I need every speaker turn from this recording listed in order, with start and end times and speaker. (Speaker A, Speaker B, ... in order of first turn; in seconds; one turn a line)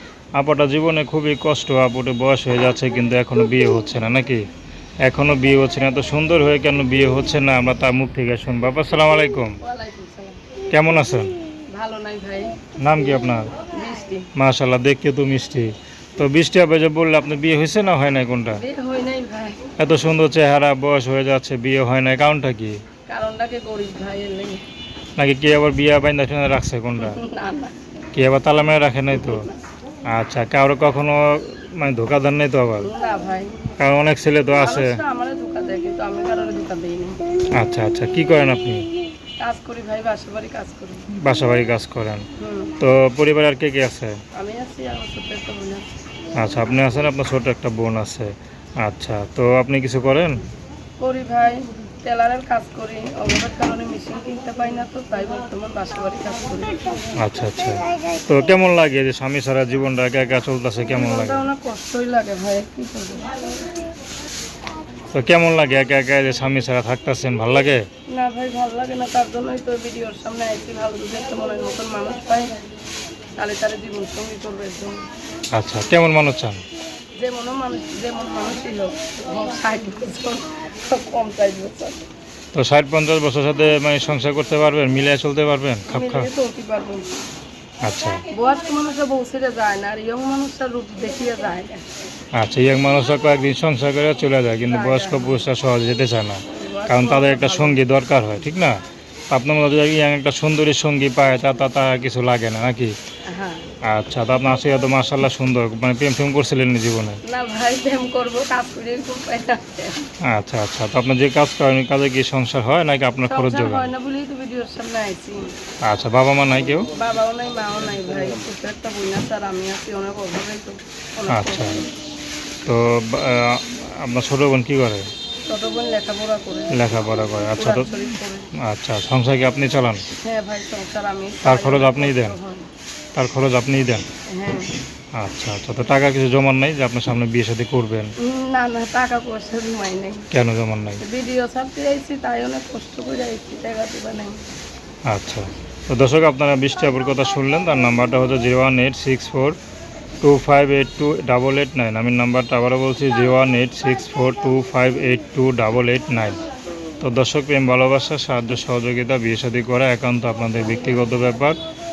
Speaker A: 0.4-4.4
Speaker A: 5.0-9.6
Speaker B: 9.6-10.4
Speaker A: 10.7-11.3
Speaker B: 11.7-12.5
Speaker A: 12.8-13.5
Speaker B: 13.7-14.3
Speaker A: 14.3-18.6
Speaker B: 18.5-19.7
Speaker A: 19.8-22.8
Speaker B: 23.1-24.6
Speaker A: 25.2-27.2
Speaker B: 27.0-27.7
Speaker A: 28.2-29.4
Speaker B: 29.1-29.6
Speaker A: 30.1-32.9
Speaker B: 32.8-33.5
Speaker A: 33.8-35.0
Speaker B: 34.6-37.2
Speaker A: 37.6-38.9
Speaker B: 39.4-41.0
Speaker A: 41.1-42.2
Speaker B: 42.4-42.8
Speaker A: 42.8-44.2
Speaker B: 44.4-46.0
Speaker A: 46.4-50.4
Speaker B: 51.0-56.8
Speaker A: 57.2-61.5
Speaker B: 60.9-63.5
Speaker A: 65.1-67.8
Speaker B: 68.1-72.5
Speaker B: 73.4-75.0
Speaker A: 75.5-76.6
Speaker B: 77.2-82.0
Speaker A: 82.5-86.3
Speaker B: 85.9-87.1
Speaker A: 87.8-88.2
Speaker B: 88.3-91.8
Speaker A: 92.3-98.8
Speaker B: 94.7-95.5
Speaker B: 96.5-97.8
Speaker A: 99.3-102.9
Speaker B: 103.3-103.7
Speaker A: 103.8-107.2
Speaker B: 107.2-110.0
Speaker A: 110.2-113.9
Speaker B: 113.2-115.5
Speaker A: 115.8-116.9
Speaker B: 116.9-121.9
Speaker A: 121.3-121.8
Speaker A: 122.6-125.1
Speaker B: 125.5-126.9
Speaker A: 126.7-127.9
Speaker B: 127.5-128.5
Speaker A: 128.6-130.0
Speaker B: 130.2-132.7
Speaker A: 131.4-132.4
Speaker A: 133.2-134.1
Speaker B: 134.3-134.7
Speaker A: 135.2-138.1
Speaker B: 138.2-140.3
Speaker A: 140.3-141.0
Speaker B: 141.0-144.4
Speaker A: 145.1-149.6
Speaker A: 150.2-156.4
Speaker A: 157.0-161.6